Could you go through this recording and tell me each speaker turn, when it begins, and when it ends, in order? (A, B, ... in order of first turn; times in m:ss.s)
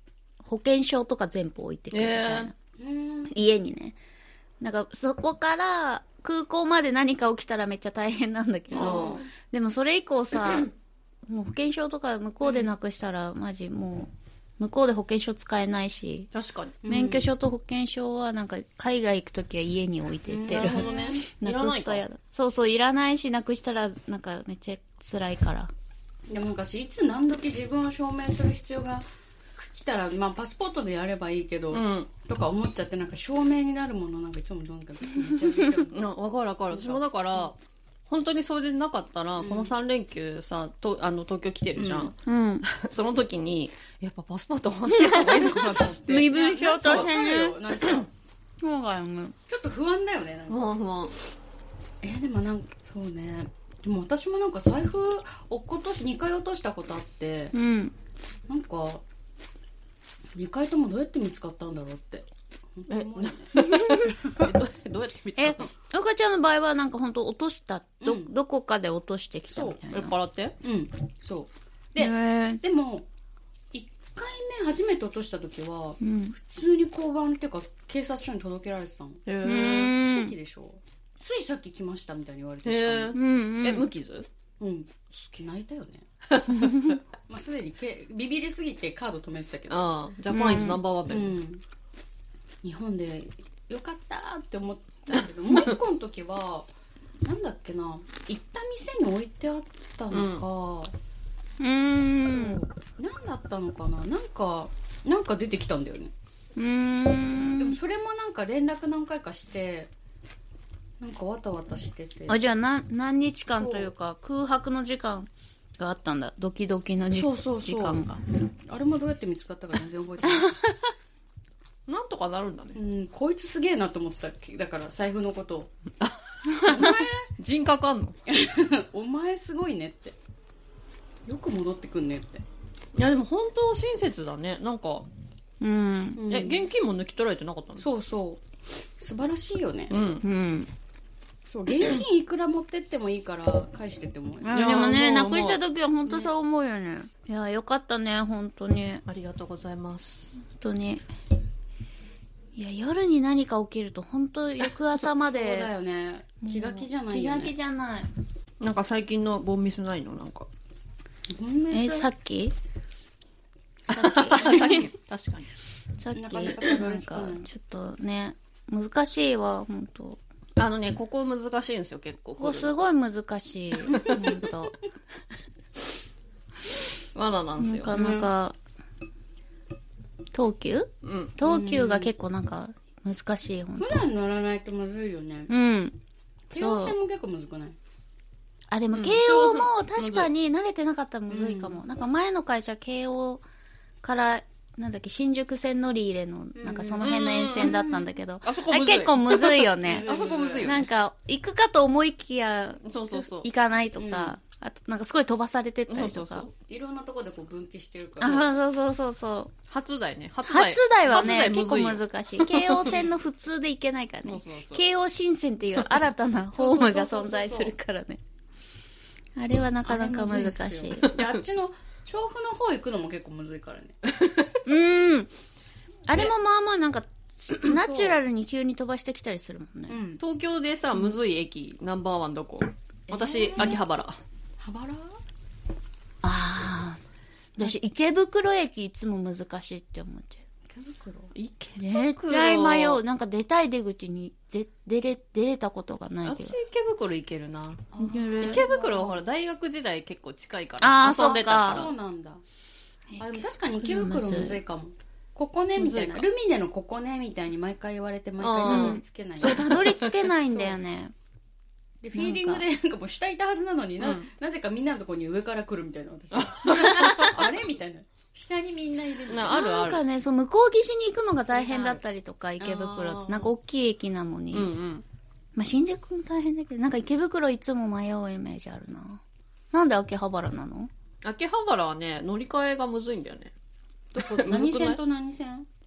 0:00.4-0:02.5 A
0:01.9-0:02.5 B
0:02.8-0:03.3 C
0:03.3-0:04.0 A
0:04.6-0:10.7 A
0:08.7-0:09.3 C
0:08.7-0:09.2 B
0:11.3-0:16.3 A
0:12.4-0:12.7 C
0:16.3-0:16.8 B
0:16.8-0:17.3 C
0:16.8-0:25.7 A
0:20.3-0:21.2 C
0:20.5-0:22.0 B
0:26.3-0:36.0 C
0:31.7-0:32.1 B
0:35.9-0:37.6 B
0:36.7-0:37.5 C
0:38.1-0:46.3 B
0:39.4-0:39.7 C
0:41.8-0:42.1 C
0:42.2-0:42.6 A
0:44.9-0:47.6 A
0:45.5-0:48.1 C
0:46.8-0:47.1 B
0:48.6-0:49.3 A
0:49.5-0:50.6 C
0:50.5-0:51.1 B
0:52.0-0:57.5 C
0:57.5-0:57.9 A
0:58.5-0:59.0 C
1:00.3-1:04.5 C
1:02.9-1:05.7 B
1:03.6-1:04.2 A
1:05.4-1:10.1 A
1:08.0-1:08.3 C
1:09.5-1:09.8 C
1:09.9-1:10.6 B
1:10.6-1:13.1 C
1:12.0-1:12.6 A
1:13.7-1:19.2 C
1:16.0-1:16.4 A
1:19.2-1:20.0 B
1:19.4-1:20.3 A
1:20.0-1:23.2 C
1:22.6-1:24.3 B
1:23.1-1:23.9 A
1:24.6-1:26.0 C
1:26.3-1:26.8 B
1:26.5-1:26.9 A
1:27.2-1:29.9 C
1:29.7-1:31.4 B
1:30.3-1:30.8 A
1:31.1-1:31.6 C
1:32.6-1:36.7 C
1:37.2-1:40.9 C
1:40.1-1:40.4 B
1:41.6-1:42.6 A
1:42.2-1:46.1 C
1:46.6-1:47.8 A
1:47.6-1:49.9 C
1:51.0-1:52.4 C
1:52.3-1:58.2 A
1:53.5-1:53.9 C
1:57.1-2:00.6 C
2:00.2-2:00.7 A
2:01.9-2:02.8 B
2:02.7-2:05.7 C
2:06.0-2:08.2 B
2:06.5-2:07.0 A
2:06.6-2:07.3 C
2:08.3-2:10.2 C
2:11.2-2:12.4 C
2:12.9-2:15.1 B
2:15.6-2:16.3 A
2:16.2-2:16.6 C
2:16.3-2:17.9 B
2:17.8-2:18.4 C
2:19.0-2:20.0 C
2:19.9-2:20.2 B
2:20.2-2:20.7 A
2:21.4-2:24.6 C
2:24.4-2:29.0 A
2:24.5-2:25.6 B
2:26.0-2:26.3 C
2:29.0-2:30.3 B
2:30.5-2:31.0 A
2:32.5-2:35.7 A
2:35.3-2:37.5 C
2:36.4-2:38.1 A
2:38.6-2:40.5 B
2:41.3-2:42.1 C
2:41.7-2:42.5 A
2:43.9-2:44.9 A
2:43.9-2:45.5 B
2:46.0-2:50.2 A
2:46.1-2:47.5 C
2:50.6-2:52.7 B
2:52.4-2:54.8 A
2:53.9-2:54.2 B
2:53.9-2:54.4 C
2:57.1-2:57.9 B
2:57.6-2:58.6 A
2:57.9-2:58.3 C
3:00.3-3:04.0 A
3:01.0-3:01.3 B
3:01.4-3:02.1 C
3:03.8-3:05.5 C
3:05.5-3:06.0 A
3:06.5-3:07.8 C
3:06.5-3:07.0 A
3:08.7-3:13.4 A
3:08.9-3:10.3 B
3:11.3-3:11.8 C
3:14.0-3:26.4 A
3:16.6-3:18.1 C
3:17.0-3:17.8 B
3:18.4-3:20.9 B
3:19.9-3:20.7 C
3:22.8-3:23.5 B
3:24.0-3:24.4 C
3:25.9-3:26.5 B
3:26.7-3:28.5 C
3:28.2-3:29.5 A
3:29.7-3:32.9 B
3:30.5-3:38.2 A
3:34.2-3:34.8 B
3:36.5-3:37.7 C
3:39.4-3:41.1 A
3:39.8-3:44.0 C
3:41.0-3:41.3 B
3:44.1-3:44.6 B
3:44.6-3:45.3 A
3:46.1-3:50.0 A
3:47.7-3:48.2 C
3:49.9-3:50.2 C
3:50.2-3:54.2 B
3:53.1-3:53.8 C
3:54.6-3:55.2 C
3:56.2-3:57.0 A
3:57.6-4:00.4 A
4:00.7-4:01.3 C
4:01.3-4:03.0 B
4:01.8-4:06.6 A
4:06.2-4:11.9 B
4:07.9-4:09.2 C
4:08.0-4:08.6 A
4:10.8-4:11.9 A
4:11.6-4:12.4 C
4:13.1-4:14.6 A
4:13.2-4:19.8 C
4:15.8-4:16.3 B
4:18.4-4:20.2 B
4:18.6-4:21.1 A
4:20.5-4:20.8 C
4:22.0-4:29.7 C
4:22.1-4:22.6 A
4:24.0-4:24.3 B
4:26.3-4:27.4 B
4:27.0-4:27.3 A
4:29.3-4:30.0 B
4:29.5-4:34.7 A
4:31.5-4:32.0 C
4:32.6-4:33.5 C
4:34.5-4:35.0 B
4:35.6-4:40.9 A
4:41.2-4:43.5 B
4:44.1-4:45.7 C
4:44.2-4:45.0 B